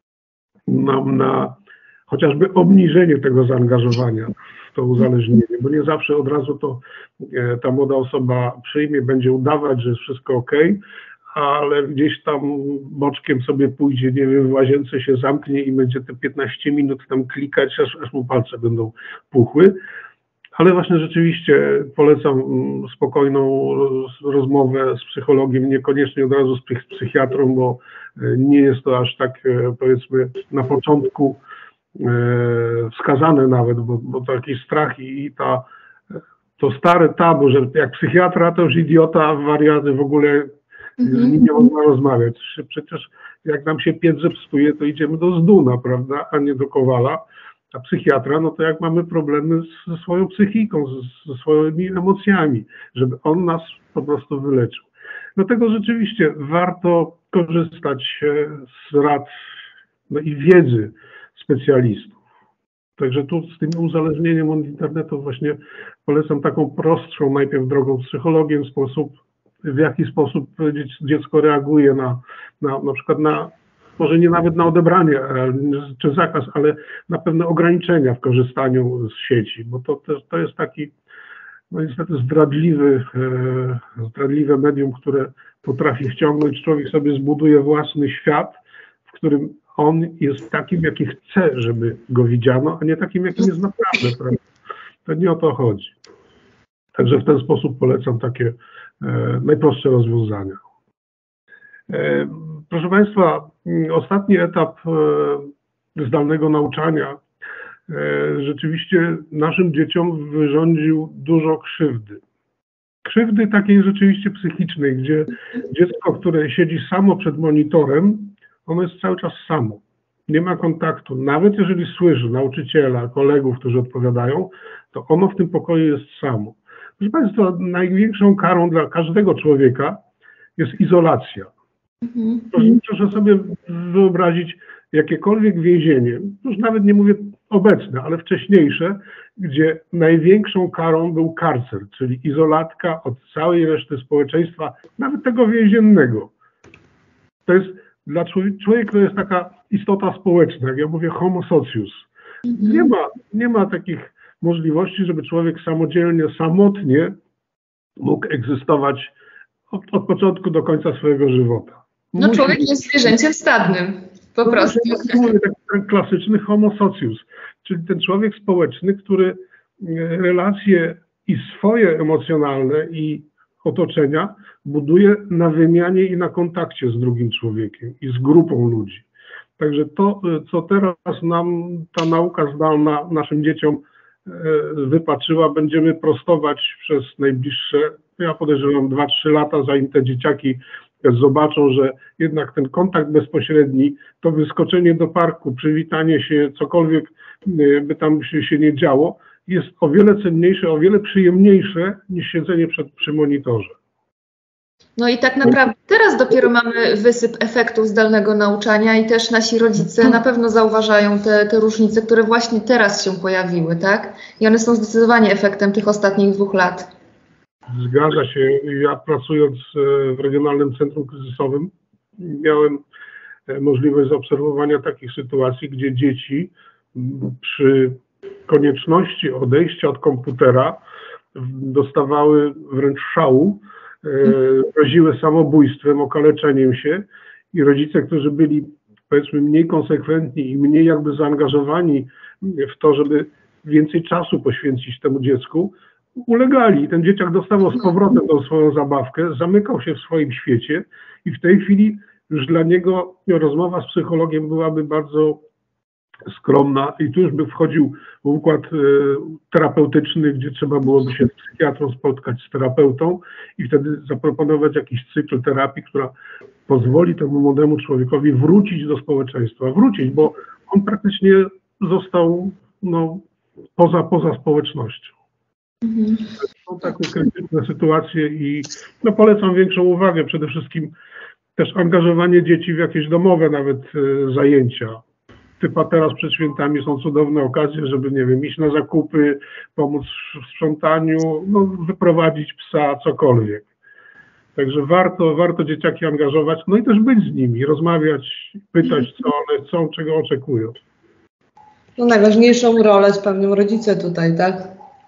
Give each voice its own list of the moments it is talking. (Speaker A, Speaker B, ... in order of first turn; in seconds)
Speaker A: 0.7-10.8, 11.3-19.8, 20.6-31.4, 31.9-35.7, 36.6-59.3, 60.1-62.2, 63.0-80.9, 81.7-88.6, 89.1-94.4, 95.0-95.9, 97.0-100.6, 101.9-107.2, 107.9-112.2, 113.0-130.0, 130.6-131.5, 132.5-146.3, 147.4-152.1, 152.6-157.2, 158.0-159.1, 159.7-162.7, 164.4-179.1, 179.6-203.8, 217.7-222.8, 223.5-230.8, 231.3-255.4, 256.3-266.1, 266.7-273.2, 273.8-275.1, 276.4-280.9, 281.6-285.0, 285.6-293.6, 294.6-300.8
Speaker B: 41.0-41.4, 132.0-132.6, 152.4-152.9, 162.2-165.3, 205.0-216.9, 275.8-276.3
Speaker C: 302.0-304.7